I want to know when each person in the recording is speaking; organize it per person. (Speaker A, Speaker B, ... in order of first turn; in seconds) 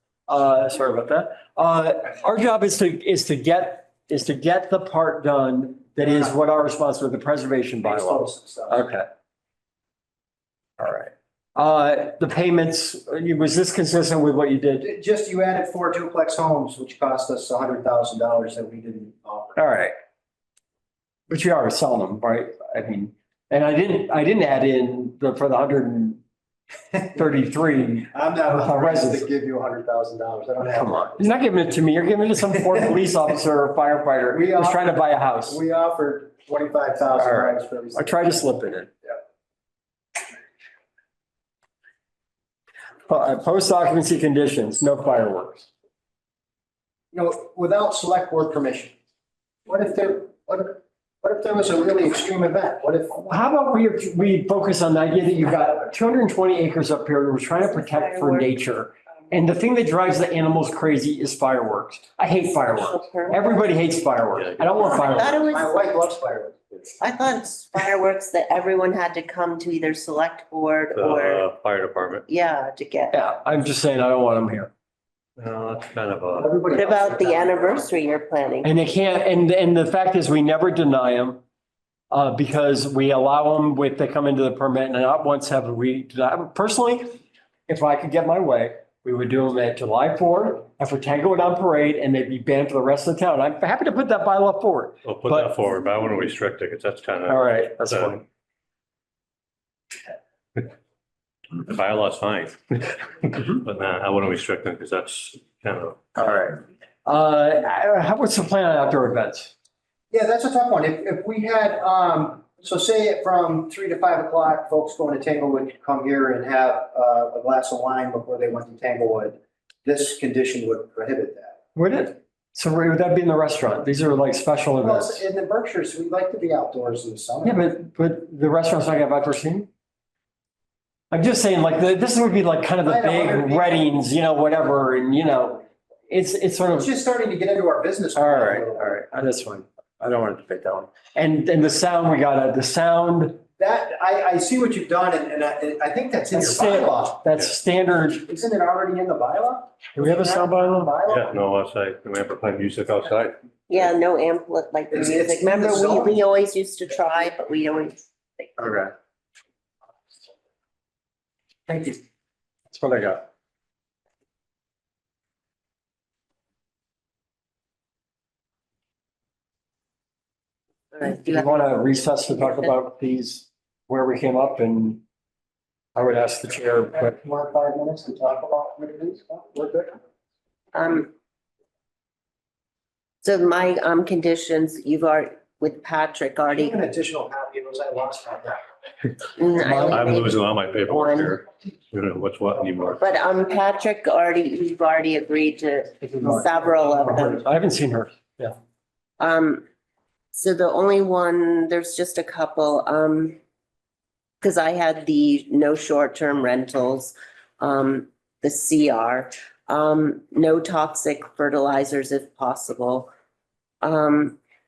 Speaker A: 0.3-9.1, 10.8-14.9, 19.6-19.9, 21.3-26.2, 27.1-29.3, 30.7-35.6, 37.1-38.9, 43.1-45.7, 53.2-65.4, 73.1-74.7, 78.6-81.4, 82.1-95.5, 97.2-98.2, 106.2-109.5, 121.7-125.2, 127.4-129.7, 131.1-136.9, 138.2-143.4, 146.3-148.4, 150.0-150.9, 162.7-163.2, 171.1-175.0, 176.0-177.2, 197.3-198.5
Speaker B: 6.0-6.3, 7.8-8.9, 14.8-19.6, 26.9-27.3, 28.1-31.2, 34.3-38.2, 47.1-49.0, 49.7-53.3, 65.4-66.8, 76.3-77.9, 110.1-121.6, 124.8-127.6, 132.8-133.9, 136.8-139.0, 143.6-147.2, 148.3-151.4, 154.9-156.2, 161.7-161.9, 176.9-180.0, 186.5-188.7, 196.2-197.4
Speaker C: 57.8-58.5, 62.7-63.6, 64.8-65.8, 67.0-71.4, 72.3-73.2, 76.7-78.7, 153.7-158.6, 170.9-172.7, 180.7-181.1, 183.2-186.8, 189.4-191.3, 193.0-197.4, 199.2-199.7, 200.3-203.4, 204.4-213.1, 213.8-214.4
Speaker D: 64.4-65.0, 71.0-72.2, 75.4-76.5, 95.0-98.2, 101.6-106.0, 151.1-153.4, 189.7-193.1